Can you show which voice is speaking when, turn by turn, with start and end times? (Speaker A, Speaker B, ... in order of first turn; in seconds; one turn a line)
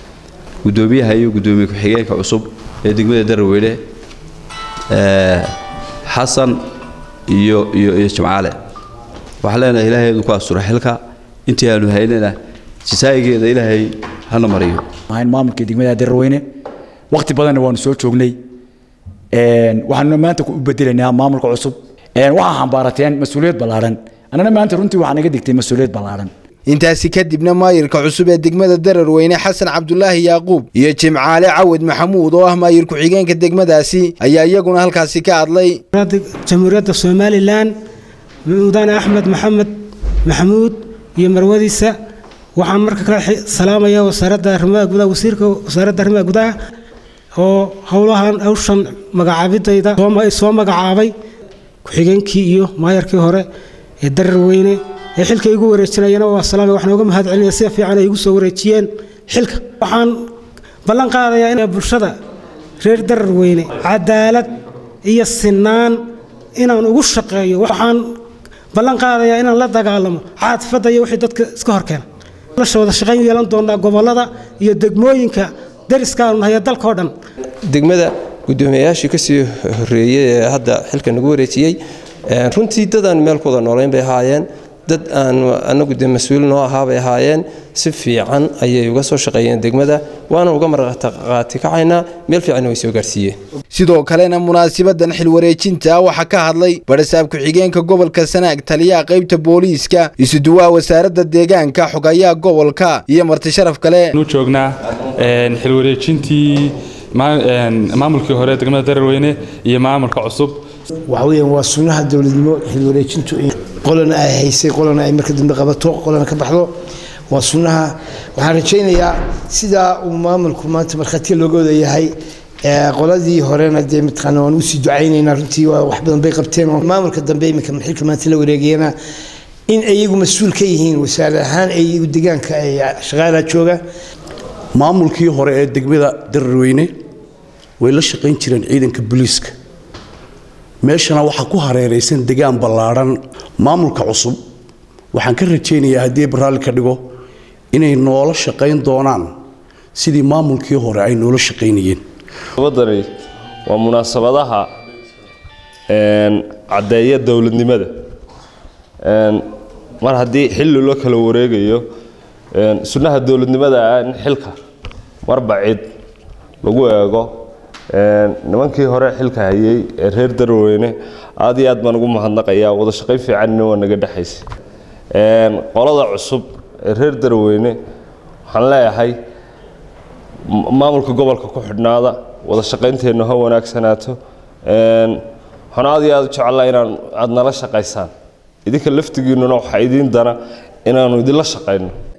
Speaker A: 0.6-3.8
Speaker A: 4.9-5.5
Speaker A: 6.1-6.6
Speaker A: 7.3-8.6
Speaker A: 9.4-14.8
Speaker B: 15.1-16.4
Speaker B: 17.1-18.4
Speaker B: 19.3-26.3
Speaker C: 26.7-35.8
Speaker D: 35.9-37.7
Speaker D: 38.5-39.7
Speaker D: 40.2-41.9
Speaker D: 42.5-46.5
Speaker D: 47.4-51.1
Speaker D: 51.8-53.5
Speaker D: 54.0-60.2
Speaker D: 60.9-62.1
Speaker D: 62.8-66.0
Speaker D: 66.5-68.1
Speaker D: 68.7-72.0
Speaker D: 72.6-77.1
Speaker E: 77.7-93.4
Speaker C: 93.7-104.1
Speaker F: 104.2-110.6
Speaker G: 111.1-116.7
Speaker G: 117.3-128.9
Speaker G: 129.7-133.8
Speaker H: 134.7-136.9
Speaker H: 137.8-139.5
Speaker H: 140.8-144.4
Speaker H: 145.1-147.0
Speaker H: 147.7-149.3
Speaker H: 149.9-152.0
Speaker I: 152.6-153.0
Speaker I: 153.7-154.7
Speaker I: 155.9-157.9
Speaker I: 159.0-159.4
Speaker I: 160.0-161.8
Speaker I: 162.5-164.6
Speaker I: 165.2-165.8
Speaker I: 166.6-167.3
Speaker I: 167.9-174.4
Speaker I: 175.1-177.8
Speaker I: 178.5-179.1
Speaker I: 180.5-184.2
Speaker I: 184.7-185.2
Speaker I: 185.7-188.1
Speaker I: 188.7-191.9